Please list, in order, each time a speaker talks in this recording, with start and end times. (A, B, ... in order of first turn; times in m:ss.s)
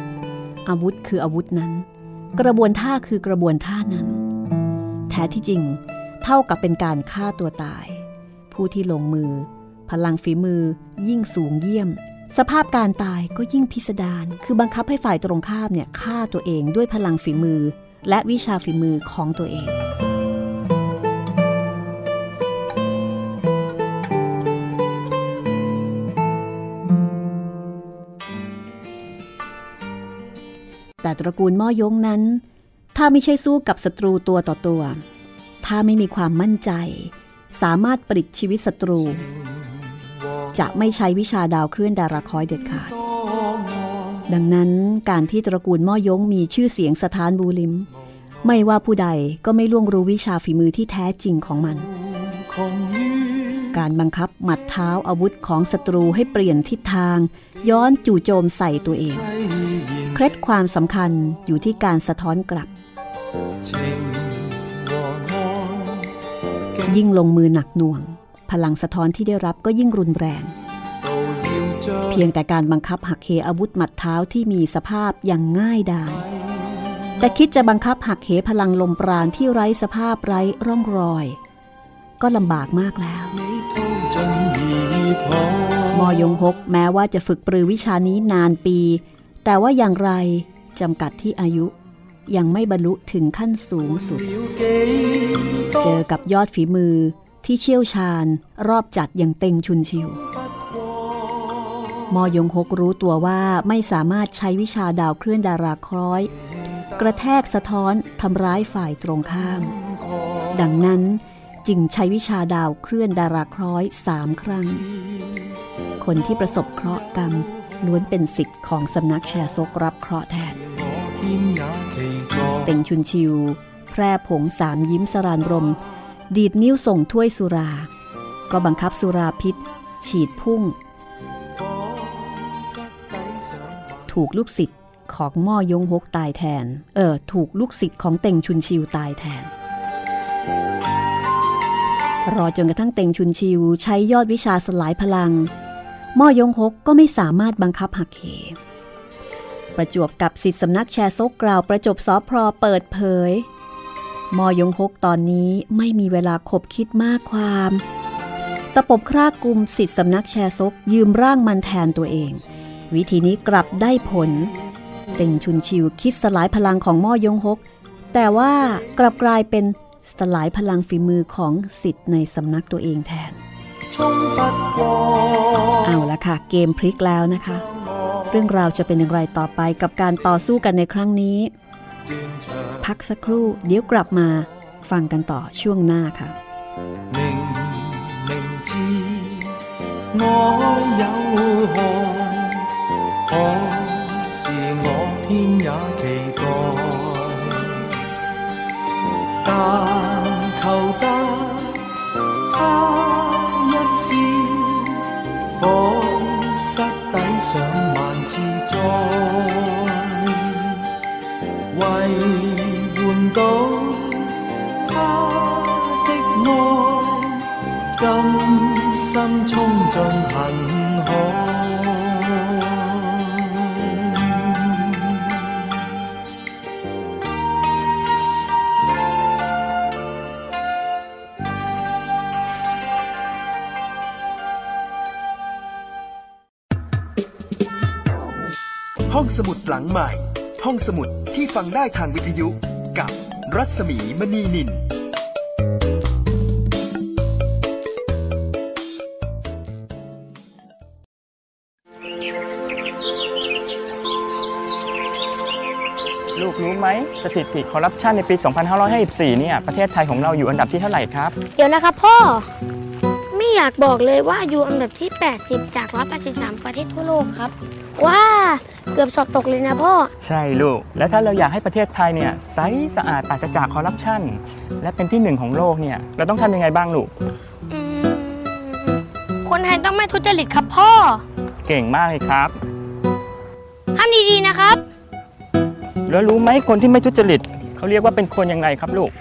0:00.6-0:04.2 A
0:05.1-0:19.8 A
0:31.0-0:32.4 A
0:32.9-0:35.0 A
0:35.6-0:39.2 A
0:39.3-0:40.5 B
0:40.5-0:42.9 A
0:42.9-0:44.2 B
0:44.3-0:47.9 A
0:48.4-0:51.9 A
0:51.9-0:53.8 B
0:53.7-0:59.3 A
0:59.1-1:00.2 B
1:00.1-1:02.7 A
1:03.6-1:06.2 B
1:06.7-1:07.0 B
1:06.8-1:10.6 A
1:11.0-1:12.3 B
1:12.1-1:16.2 A
1:16.2-1:17.2 B
1:17.2-1:21.4 A
1:22.2-1:23.4 A
1:23.3-1:26.3 B
1:25.9-1:31.7 A
1:32.3-1:34.3 A
1:33.9-1:36.0 B
1:35.8-1:40.2 A
1:40.3-1:42.0 B
1:42.1-1:46.3 A
1:47.0-1:49.8 A
1:49.8-1:50.5 B
1:50.5-1:54.8 A
1:56.0-2:00.6 A
2:00.6-2:02.8 B
2:02.6-2:05.8 A
2:06.3-2:07.9 A
2:08.5-2:10.8 A
2:11.6-2:14.0 B
2:14.1-2:19.5 A
2:22.2-2:25.5 A
2:26.2-2:28.6 A
2:29.8-2:33.5 A
2:34.3-2:37.8 A
2:38.7-2:44.5 A
2:45.2-2:53.4 A
2:53.9-2:56.0 B
2:55.8-2:57.7 A
2:57.7-2:58.4 B
2:58.3-3:01.5 A
3:02.0-3:02.9 B
3:02.8-3:06.4 A
3:07.1-3:09.6 B
3:10.1-3:12.7 B
3:13.3-3:18.1 B
3:19.4-3:21.9 B
3:22.5-3:30.9 B
3:31.7-3:45.7 B
3:59.1-4:04.9 C
4:16.4-4:21.4 D
4:21.5-4:22.5 E
4:23.3-4:30.1 E
4:30.2-4:37.1 D
4:37.7-4:41.2 E
4:41.6-4:42.6 D
4:44.0-4:44.8 E
4:46.1-4:49.1 D